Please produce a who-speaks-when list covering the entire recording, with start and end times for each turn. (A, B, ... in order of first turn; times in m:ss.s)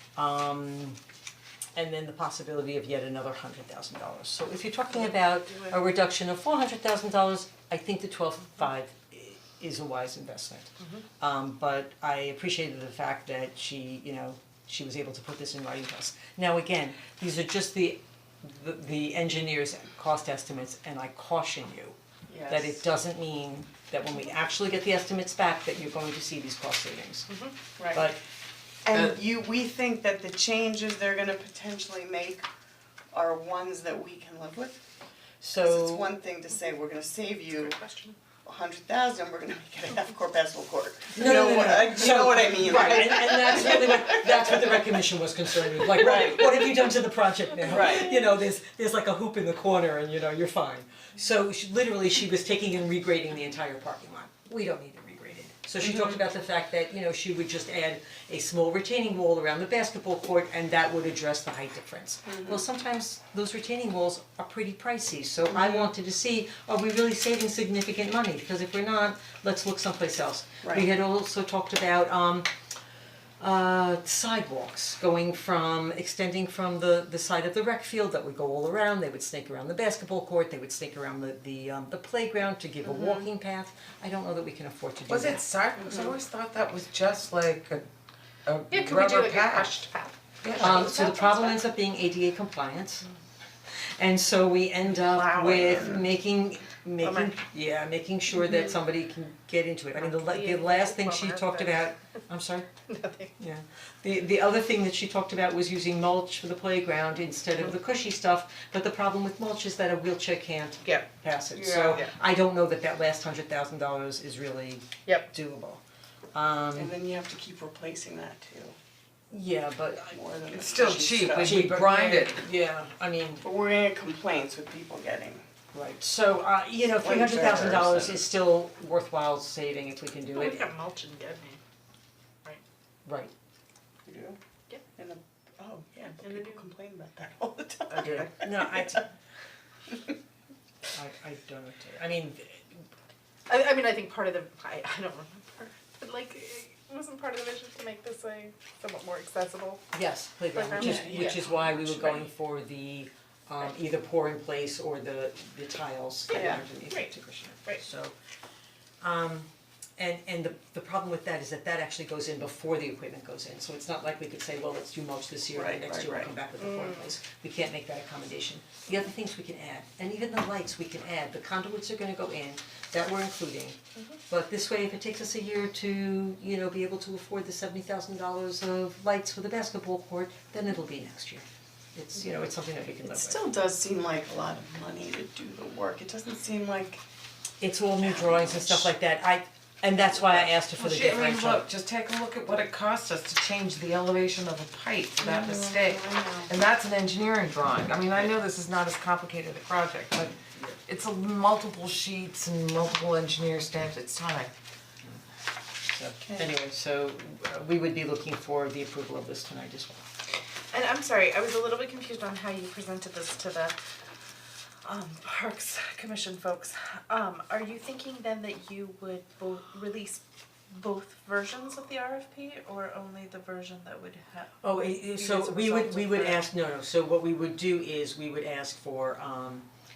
0:00.2-0:01.0 A
0:01.8-0:22.0 A
0:05.0-0:05.8 B
0:10.8-0:11.0 B
0:22.3-0:22.8 C
0:22.5-0:27.3 A
0:27.3-0:27.6 B
0:27.8-0:28.1 C
0:27.9-0:28.2 A
0:28.8-0:32.4 C
0:33.1-0:34.8 C
0:35.4-0:36.1 A
0:35.6-0:37.8 C
0:37.6-0:38.2 B
0:38.4-0:44.6 C
0:41.1-1:12.5 A
0:45.8-0:46.7 C
0:47.6-0:48.2 C
1:02.3-1:02.6 C
1:05.5-1:05.9 C
1:13.4-1:25.4 A
1:22.8-1:23.3 C
1:25.1-1:27.9 D
1:25.8-1:26.1 C
1:28.5-1:29.8 D
1:28.7-1:31.6 B
1:30.4-1:30.9 D
1:30.6-1:33.1 A
1:33.8-1:42.7 A
1:34.9-1:36.0 B
1:37.0-1:37.3 B
1:40.0-1:41.9 B
1:42.9-1:43.3 B
1:43.4-1:55.8 A
1:51.6-1:52.1 C
1:56.3-1:56.9 A
1:56.8-1:58.8 C
1:59.3-2:00.2 A
2:00.1-2:01.7 C
2:00.5-2:02.4 D
2:01.4-2:03.4 A
2:03.4-2:05.4 C
2:05.7-2:10.7 A
2:07.0-2:08.2 C
2:10.3-2:11.6 B
2:13.1-2:13.3 A
2:14.0-2:14.4 C
2:15.0-2:19.0 C
2:16.2-2:16.6 B
2:18.0-2:19.1 A
2:20.9-2:22.8 A
2:23.5-2:29.8 B
2:29.9-2:38.2 A
2:30.5-2:32.3 B
2:30.8-2:31.4 C
2:36.3-2:36.6 C
2:36.3-2:37.1 B
2:39.0-2:53.8 A
2:45.5-2:46.3 C
2:46.6-2:47.0 B
2:54.3-3:03.4 A
3:03.0-3:07.0 C
3:07.6-3:11.7 A
3:08.0-3:08.9 C
3:10.6-3:24.5 D
3:15.2-3:16.5 C
3:25.8-3:30.0 A
3:26.2-3:26.6 C
3:30.7-3:33.8 B
3:34.8-3:46.4 B
3:44.6-3:49.7 A